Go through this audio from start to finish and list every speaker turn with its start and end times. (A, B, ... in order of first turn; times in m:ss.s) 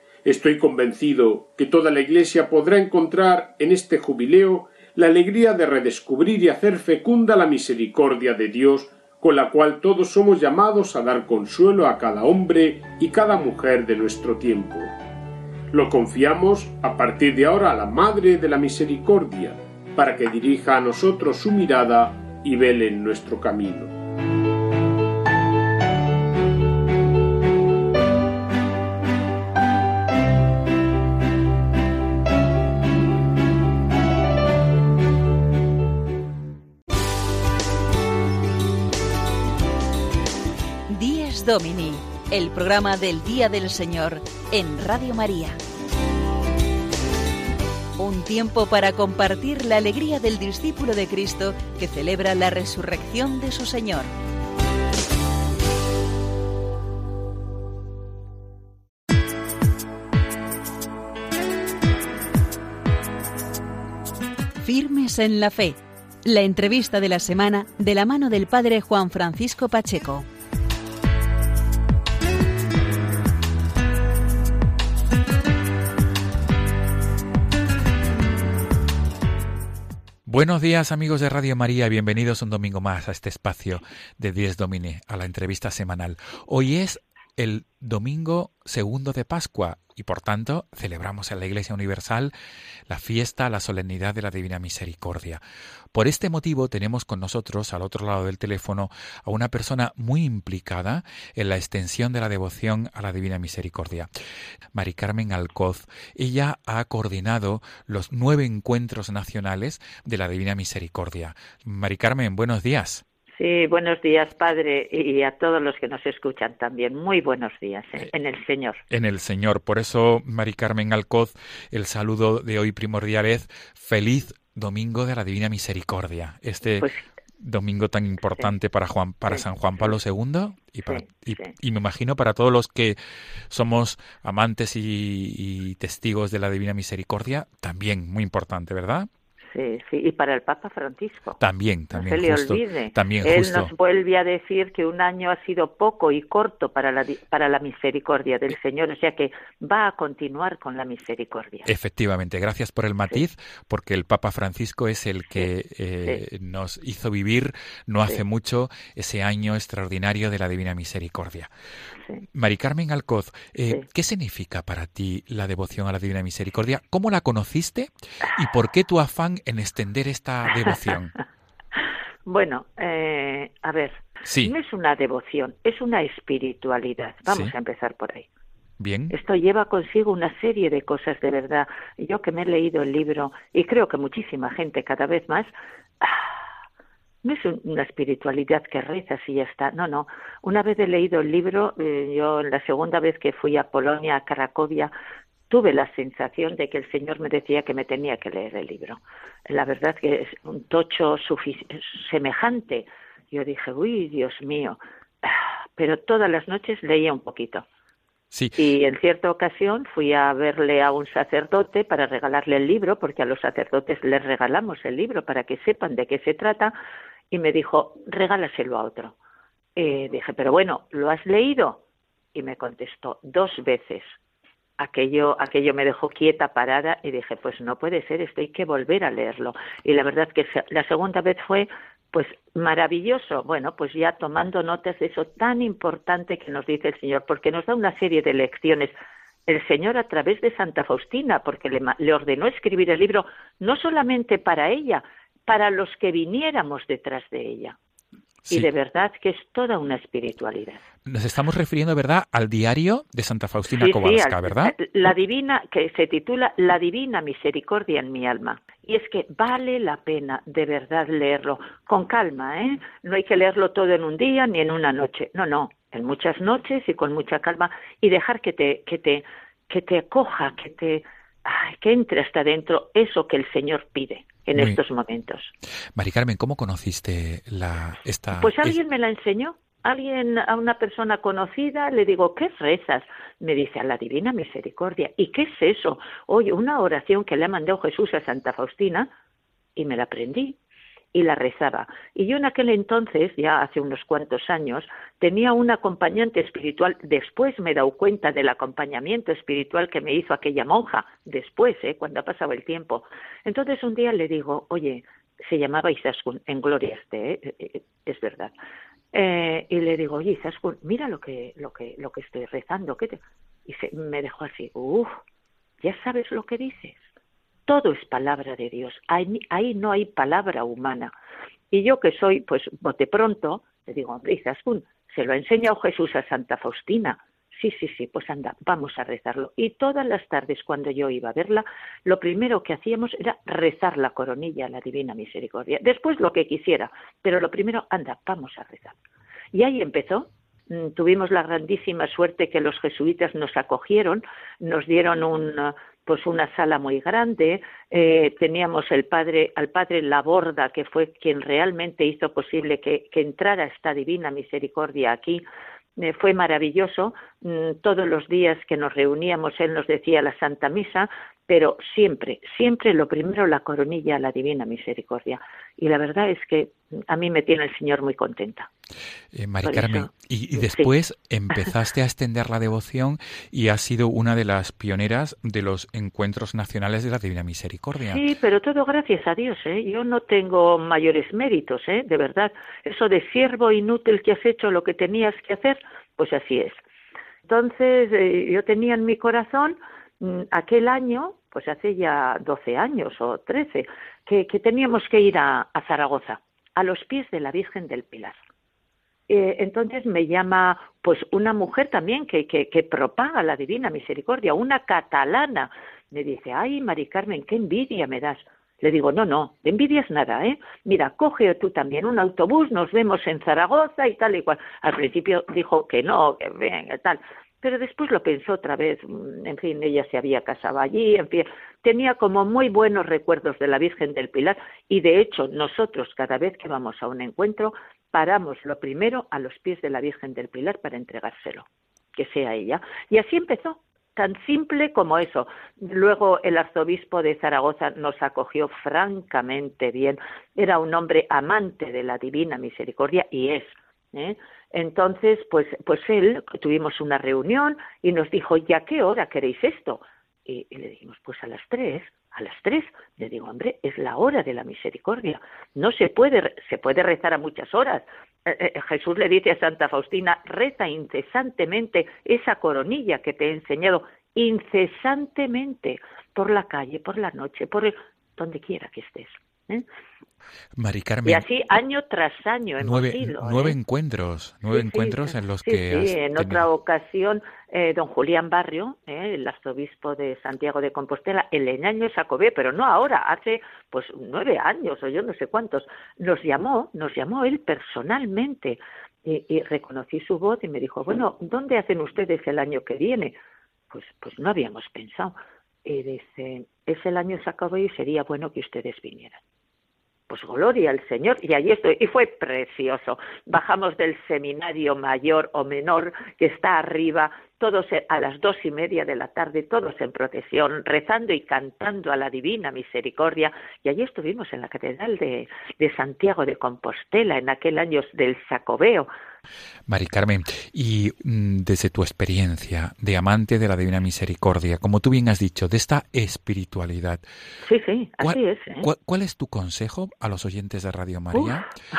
0:00.2-0:14.9 A
0:15.7-0:23.9 A
0:40.9-0:45.6 B
0:48.0-0:54.1 B
1:04.6-1:10.2 B
1:20.2-1:32.3 C
1:32.9-1:35.4 C
1:35.9-1:44.1 C
1:44.7-1:53.0 C
1:53.3-1:58.8 D
1:58.9-2:06.9 C
2:06.8-2:07.0 D
2:07.4-2:13.0 C
2:09.3-2:09.9 D
2:10.9-2:11.5 D
2:13.5-2:19.1 C
2:19.5-2:21.4 D
2:21.4-2:23.7 C
2:21.9-2:31.7 D
2:31.6-2:41.5 C
2:42.3-2:51.1 C
2:52.2-2:58.3 D
2:54.2-2:54.5 C
2:57.3-2:57.5 C
2:58.8-2:59.1 C
2:59.1-3:05.5 D
3:07.2-3:14.9 D
3:15.5-3:27.6 D
3:28.3-3:28.6 C
3:28.6-3:36.7 D
3:37.3-3:39.2 D
3:39.8-3:41.8 D
3:42.3-3:44.1 D
3:44.8-3:58.9 D
3:59.5-4:07.8 D
4:08.5-4:10.8 D
4:11.0-4:14.7 C
4:13.7-4:35.5 D
4:36.0-4:38.8 C
4:38.4-4:49.1 D
4:49.8-4:50.6 D
4:51.1-5:08.5 D
5:09.1-5:15.1 D
5:15.8-5:17.0 D
5:17.7-5:21.1 D
5:21.7-5:39.0 D
5:39.5-5:55.4 D
5:56.0-6:08.7 D
6:09.3-6:18.2 C
6:09.6-6:10.9 D
6:18.0-6:26.8 D
6:27.5-6:38.4 D
6:39.3-7:49.8 D
7:50.8-7:51.4 C
7:51.2-7:53.8 D
7:52.8-7:56.6 C
7:54.7-8:13.4 D
8:13.9-8:19.4 D
8:20.3-8:39.1 D
8:39.9-8:47.2 C
8:47.6-8:48.8 D
8:48.2-8:51.6 C